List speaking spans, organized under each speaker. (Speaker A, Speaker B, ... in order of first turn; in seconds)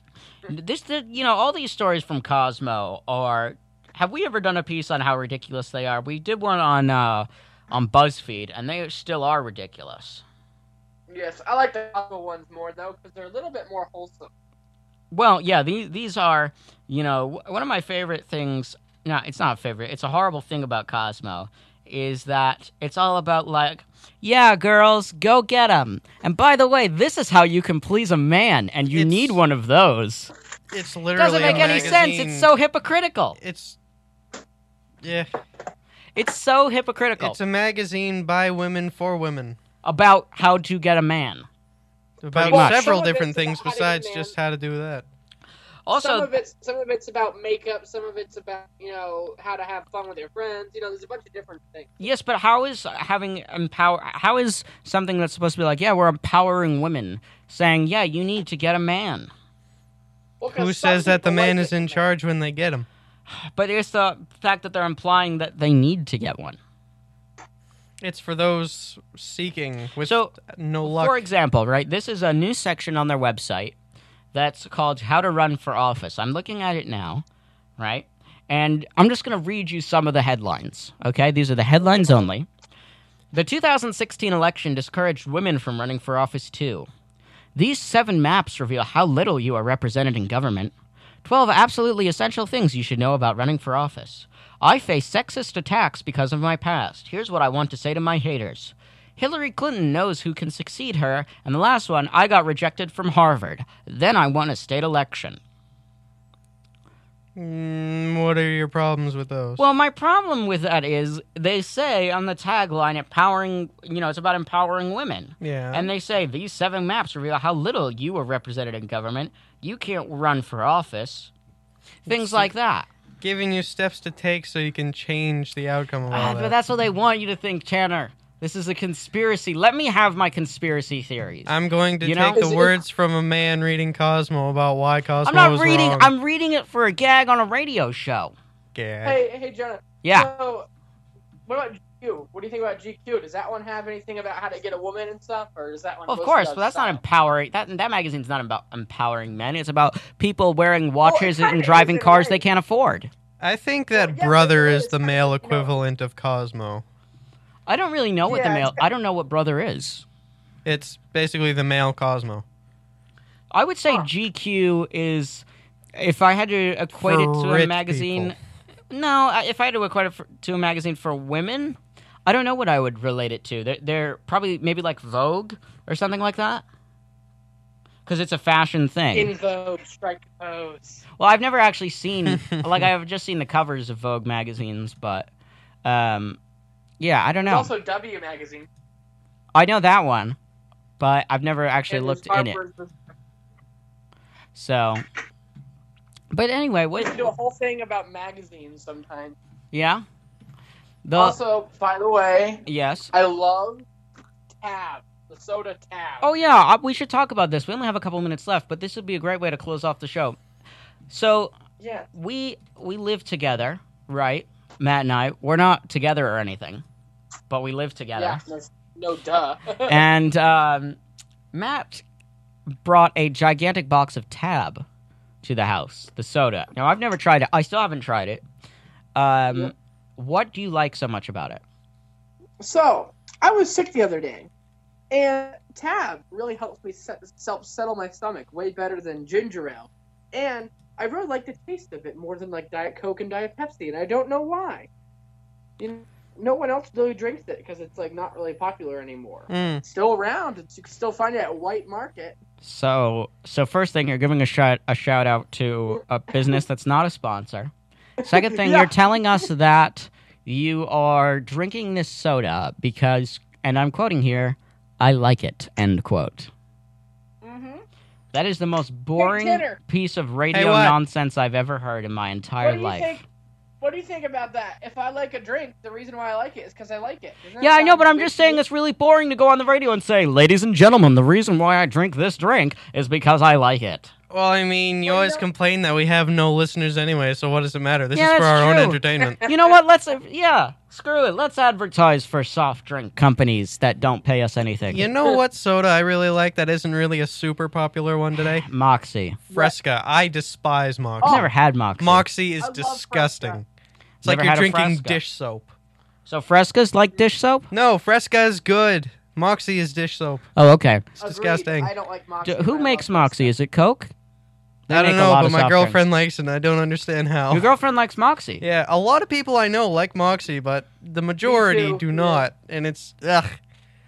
Speaker A: 0.5-10.2, 15.1-30.3, 31.1-33.4, 36.1-37.4, 39.8-41.5, 42.3-42.8, 45.9-46.3, 52.0-59.3, 63.3-66.6, 70.0-73.7, 74.3-77.2, 77.8-82.5, 83.3-86.9, 87.5-90.7, 91.2-105.4, 109.6-121.3, 122.1-122.9, 126.1-132.5, 135.2-138.3, 140.0-140.3, 146.1-153.1, 157.7-160.0, 163.5-168.3, 168.9-176.6, 178.1-179.3, 181.2-185.3, 185.8-186.4, 187.0-187.7, 189.5-190.4, 191.0-192.6, 194.5-195.0, 196.3-197.3, 199.7-200.0, 201.0-201.4, 202.7-203.1, 206.2-210.4, 211.1-211.5, 212.1-216.8, 217.5-218.4, 219.8-221.0, 221.5-222.0, 222.8-224.8, 225.4-228.4, 229.1-231.6, 252.6-257.7, 258.2-266.5, 268.3-273.2, 277.6-284.1, 288.1-295.1, 298.4-299.4, 301.2-302.2, 304.2-305.2, 306.2-307.7, 310.6-311.1, 312.4-314.1, 314.9-316.0, 317.5-318.6
Speaker B: 11.1-14.3, 31.4-32.0, 42.5-44.3, 45.9-52.0, 60.4-62.0, 81.9-82.2, 132.3-132.7, 139.0-140.7, 141.5-147.0, 151.0-152.4, 153.9-155.7, 158.2-158.8, 179.1-181.0, 187.4-188.7, 191.9-192.9, 196.9-199.3, 201.1-203.8, 204.6-206.3, 211.8-212.1, 218.2-220.0, 232.6-234.5, 235.1-244.9, 245.8-252.4, 258.2-259.2, 267.4-267.8, 269.2-269.8, 272.6-273.2, 273.8-278.6, 285.1-285.4, 289.2-289.5, 299.5-299.7, 301.2-301.5, 302.6-303.6, 311.2-313.5, 321.4-322.4
Speaker C: 28.9-29.4, 30.7-32.5, 33.4-33.8, 35.0-35.3, 37.2-39.6, 42.2-45.1, 60.5-62.9, 68.0-71.2, 107.3-109.6, 115.4-115.9, 122.1-122.5, 123.2-126.5, 131.4-136.1, 138.7-139.2, 153.4-156.8, 160.6-162.4, 167.0-168.3, 249.5-249.8, 270.5-271.0, 284.3-289.4, 294.9-298.7, 299.5-303.6, 304.2-305.7, 307.7-310.4, 311.2-311.9, 314.9-317.7, 318.6-323.6